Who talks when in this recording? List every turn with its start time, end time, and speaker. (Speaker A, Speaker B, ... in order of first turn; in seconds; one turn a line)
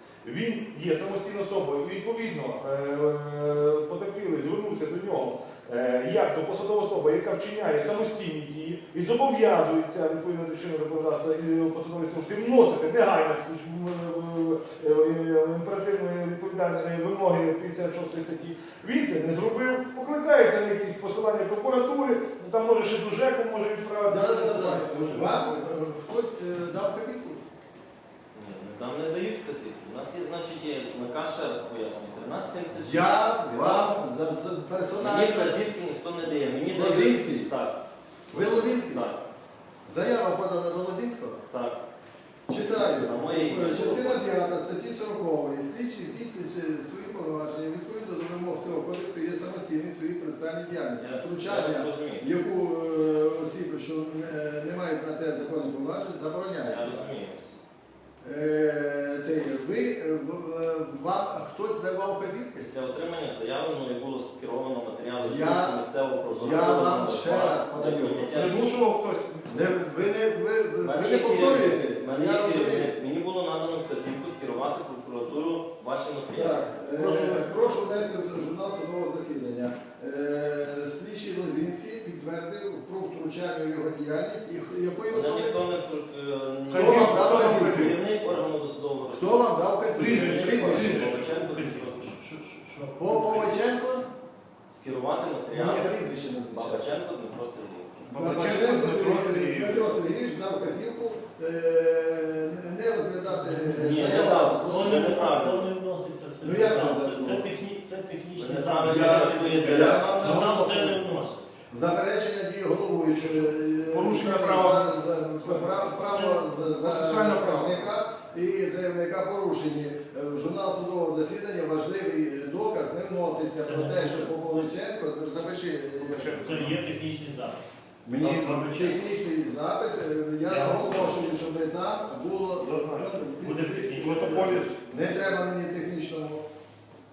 Speaker A: 0.2-25.6
Speaker B: 24.1-27.4
Speaker C: 28.3-34.0
Speaker B: 32.8-35.6
Speaker C: 35.0-37.8
Speaker B: 36.7-37.5
Speaker B: 38.3-39.1
Speaker C: 38.3-39.3
Speaker B: 39.9-41.4
Speaker C: 41.5-41.8
Speaker B: 42.5-57.1
Speaker C: 42.7-44.3
Speaker C: 51.0-52.3
Speaker C: 56.7-57.6
Speaker B: 58.2-62.7
Speaker C: 62.6-68.7
Speaker B: 65.2-68.5
Speaker A: 68.3-69.8
Speaker B: 69.5-73.0
Speaker C: 70.8-77.4
Speaker B: 76.3-85.6
Speaker C: 85.1-92.2
Speaker A: 86.7-88.0
Speaker B: 86.7-87.9
Speaker B: 89.2-91.1
Speaker A: 90.0-91.1
Speaker D: 90.5-93.6
Speaker B: 93.0-94.1
Speaker C: 94.7-96.0
Speaker B: 95.5-96.9
Speaker C: 96.5-98.1
Speaker A: 98.1-100.0
Speaker B: 98.1-105.3
Speaker D: 103.5-111.5
Speaker C: 103.7-105.7
Speaker B: 106.4-107.5
Speaker C: 108.4-110.4
Speaker B: 108.8-111.0
Speaker B: 111.7-126.7
Speaker A: 113.9-114.9
Speaker A: 115.4-117.9
Speaker D: 123.6-124.7
Speaker A: 126.0-126.8
Speaker D: 126.3-127.6
Speaker B: 128.1-136.4
Speaker D: 128.2-129.0
Speaker D: 130.5-131.2
Speaker A: 132.6-133.2
Speaker D: 133.4-134.7
Speaker A: 134.0-135.1